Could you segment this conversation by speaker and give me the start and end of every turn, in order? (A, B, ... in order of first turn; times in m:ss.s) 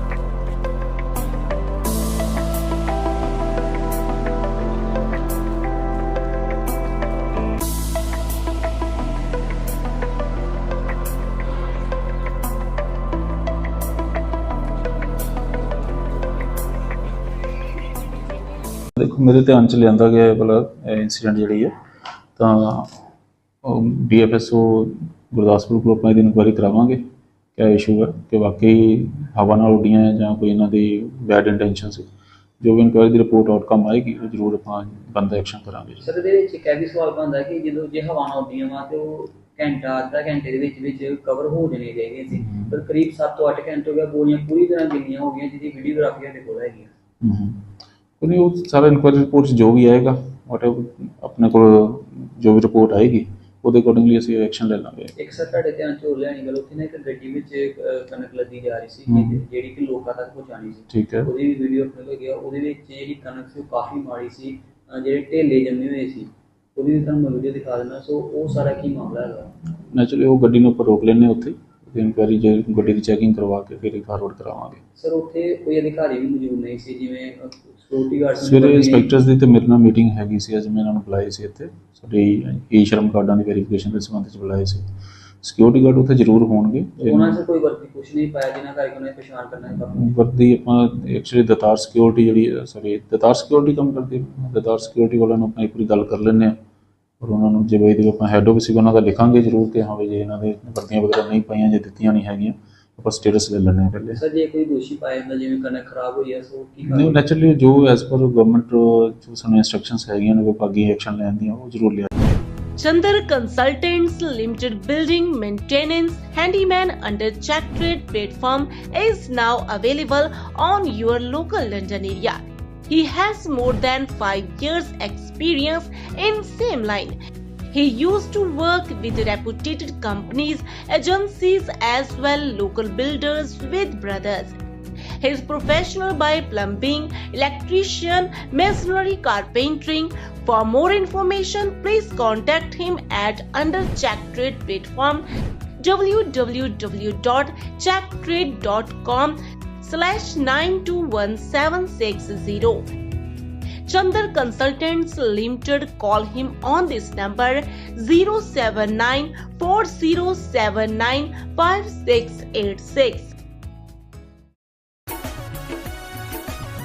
0:19.0-0:21.7 A
0:22.4-0:23.0 A
0:23.6-0:27.0 A
0:27.6-0:32.1 A
0:32.6-0:36.0 A
0:36.0-0:46.9 B
0:42.4-0:42.7 A
0:47.2-0:47.6 A
0:48.2-0:55.1 A
0:55.2-1:09.5 B
0:59.1-0:59.4 A
1:00.9-1:01.3 A
1:09.9-1:14.8 A
1:15.0-1:19.1 B
1:18.4-1:24.8 A
1:25.4-1:27.4 A
1:27.0-1:30.1 B
1:29.9-1:36.6 A
1:37.2-1:44.2 A
1:44.2-1:47.3 B
1:46.8-1:52.1 A
1:52.8-2:07.2 C
2:07.7-2:14.5 C
2:15.2-2:25.2 C
2:25.8-2:32.9 C
2:33.9-2:43.3 C